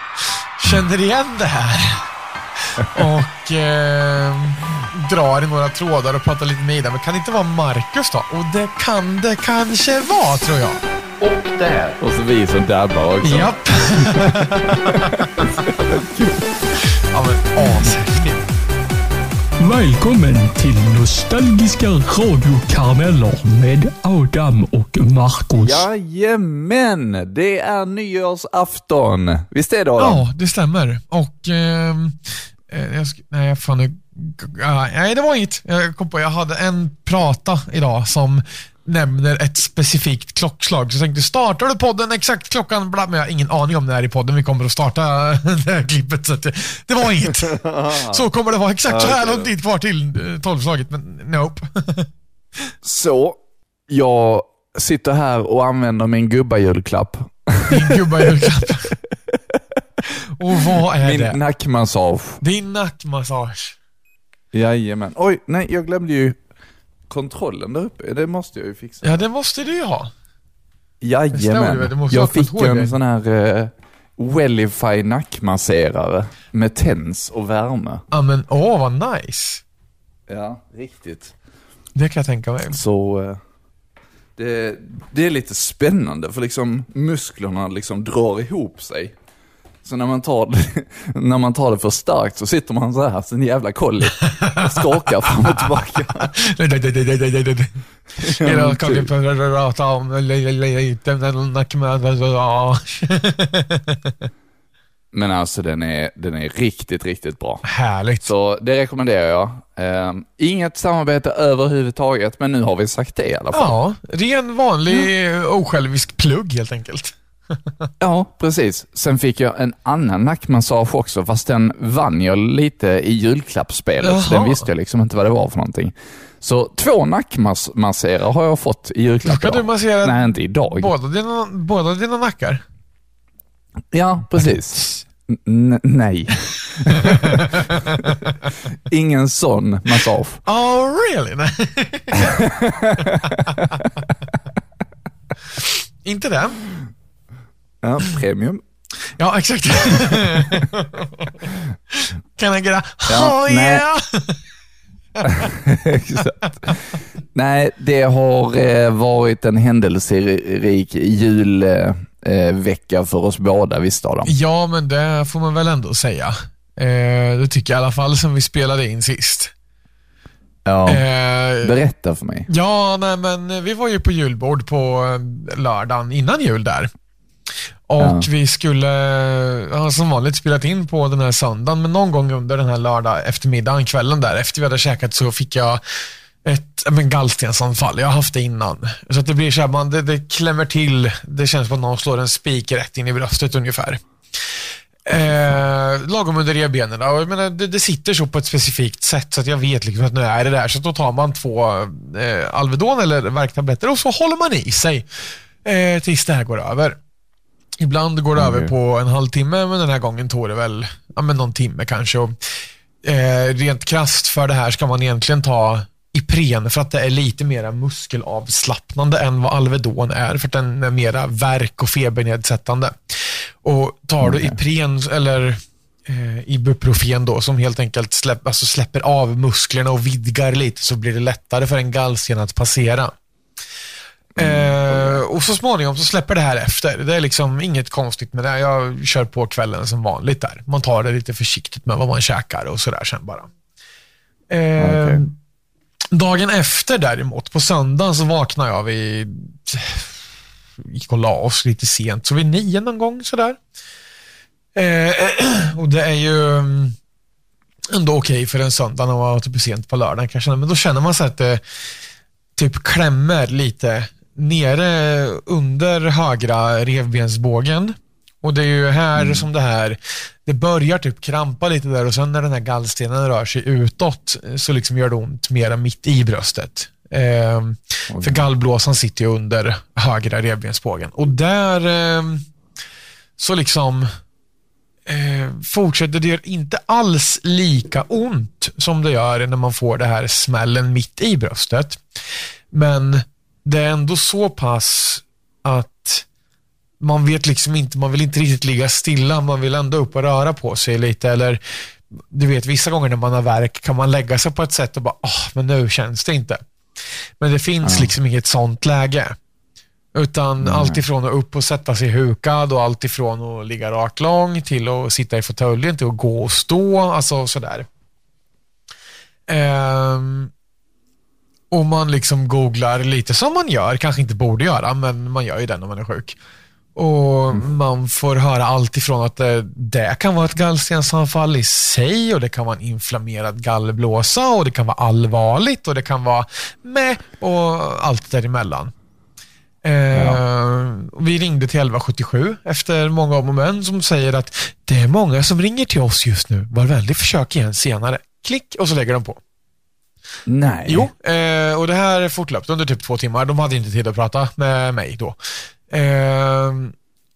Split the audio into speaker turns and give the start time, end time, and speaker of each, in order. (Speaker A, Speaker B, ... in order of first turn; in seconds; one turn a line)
Speaker A: 0.6-2.0
Speaker A: 2.7-10.8
Speaker B: 11.2-16.5
Speaker A: 13.2-15.5
Speaker A: 17.1-18.5
Speaker C: 19.6-25.9
Speaker B: 25.6-30.2
Speaker A: 30.0-32.2
Speaker A: 32.7-52.1
Speaker B: 47.2-48.2
Speaker B: 48.9-49.5
Speaker B: 52.8-58.3
Speaker A: 57.7-59.0
Speaker A: 60.4-61.4
Speaker B: 61.0-62.4
Speaker A: 62.4-63.8
Speaker B: 64.5-66.4
Speaker B: 67.1-69.2
Speaker A: 69.0-70.1
Speaker B: 71.0-78.0
Speaker A: 71.3-73.0
Speaker A: 78.1-79.6
Speaker B: 80.3-81.3
Speaker A: 82.0-82.8
Speaker B: 82.7-83.4
Speaker B: 84.4-89.2
Speaker B: 89.8-96.3
Speaker A: 94.4-95.6
Speaker A: 96.2-97.7
Speaker B: 98.2-99.1
Speaker A: 98.2-104.0
Speaker B: 105.1-107.6
Speaker A: 107.7-108.3
Speaker B: 108.2-113.8
Speaker A: 113.5-117.1
Speaker B: 118.0-130.9
Speaker A: 124.0-124.7
Speaker A: 129.2-132.6
Speaker B: 133.9-138.1
Speaker A: 136.9-138.5
Speaker B: 138.9-140.4
Speaker A: 140.4-142.4
Speaker B: 142.3-143.4
Speaker A: 143.0-143.8
Speaker A: 145.6-146.6
Speaker B: 147.8-148.6
Speaker A: 149.2-151.3
Speaker A: 151.9-154.4
Speaker B: 153.1-153.8
Speaker A: 155.2-155.5
Speaker B: 155.2-156.8
Speaker A: 156.4-156.7
Speaker B: 157.3-164.3
Speaker A: 164.3-169.5
Speaker B: 170.7-171.1
Speaker A: 170.9-171.8
Speaker B: 171.6-172.5
Speaker A: 172.5-176.9
Speaker A: 177.9-185.8
Speaker B: 178.0-178.3
Speaker A: 186.4-194.0
Speaker A: 195.1-205.1
Speaker A: 205.6-207.0
Speaker A: 207.8-212.3
Speaker B: 208.4-208.7
Speaker A: 213.0-233.1
Speaker B: 224.2-224.6
Speaker B: 234.4-235.2
Speaker A: 234.4-243.5
Speaker A: 244.5-245.3
Speaker B: 244.8-245.2
Speaker A: 246.1-250.2
Speaker A: 250.8-253.6
Speaker A: 254.8-257.0
Speaker A: 257.9-261.6
Speaker A: 262.6-282.4
Speaker B: 269.2-269.5
Speaker B: 278.1-278.5
Speaker A: 283.4-284.1
Speaker A: 285.1-292.0
Speaker A: 292.7-296.3
Speaker A: 297.0-301.6
Speaker A: 302.2-306.6
Speaker A: 307.4-309.4
Speaker B: 307.8-308.1
Speaker A: 310.1-317.9
Speaker B: 310.6-311.0
Speaker A: 319.5-320.5
Speaker A: 321.7-326.4
Speaker A: 327.0-338.9
Speaker A: 339.8-349.4
Speaker B: 340.1-340.4
Speaker B: 350.5-351.1
Speaker A: 350.9-355.4
Speaker A: 355.9-356.9